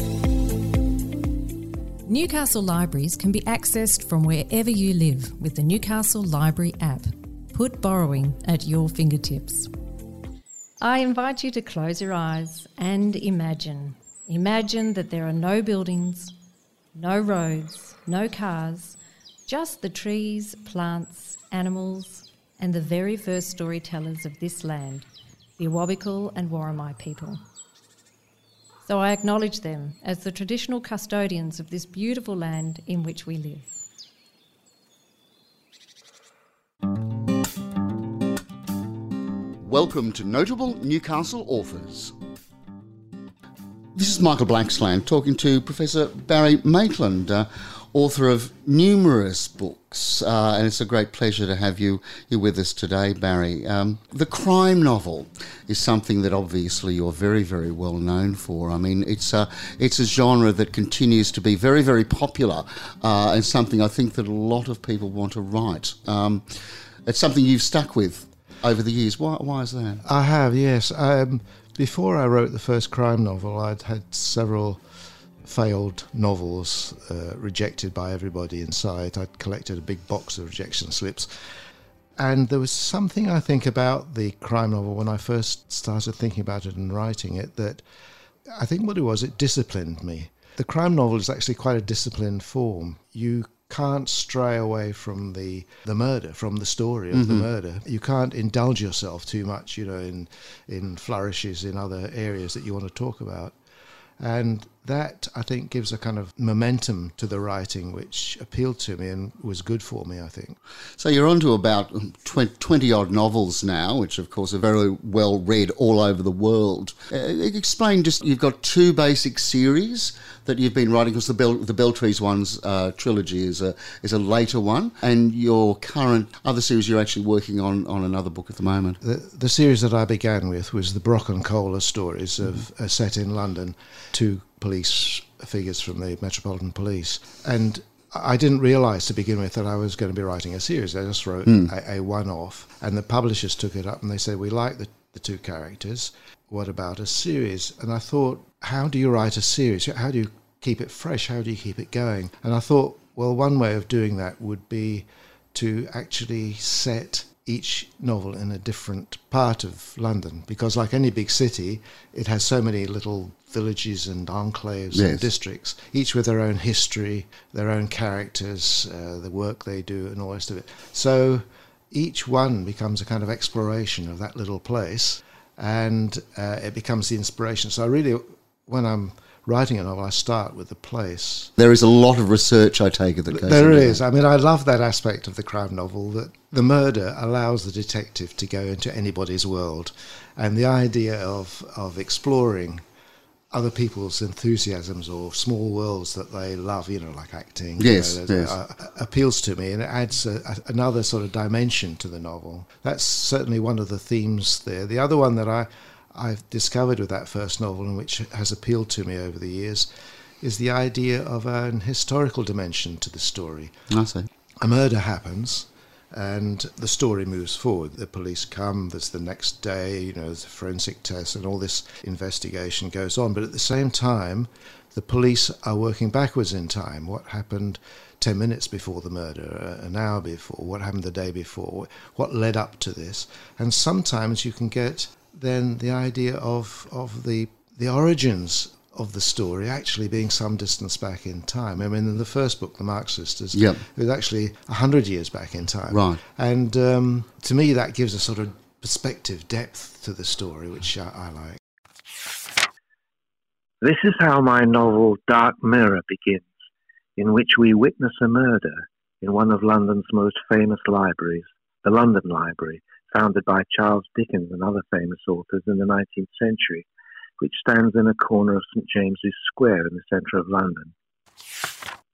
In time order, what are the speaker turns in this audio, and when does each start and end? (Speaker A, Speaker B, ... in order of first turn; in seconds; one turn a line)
Speaker A: 2.1-9.7
Speaker A: 10.8-16.3
Speaker A: 16.9-27.4
Speaker A: 28.8-33.8
Speaker B: 39.6-42.1
Speaker B: 44.0-70.0
Speaker C: 70.0-74.8
Speaker C: 75.4-81.3
Speaker C: 82.2-87.8
Speaker C: 88.5-103.6
Speaker B: 97.1-97.5
Speaker C: 104.2-110.6
Speaker B: 111.0-129.0
Speaker C: 129.0-181.5
Speaker B: 164.9-165.3
Speaker B: 181.6-184.0
Speaker C: 183.3-192.8
Speaker C: 193.5-209.9
Speaker B: 197.8-198.5
Speaker C: 210.4-213.8
Speaker B: 213.9-214.3
Speaker C: 214.6-251.6
Speaker B: 243.5-243.8
Speaker B: 245.9-246.2
Speaker D: 253.8-256.5
Speaker D: 257.2-266.9
Speaker D: 267.4-270.9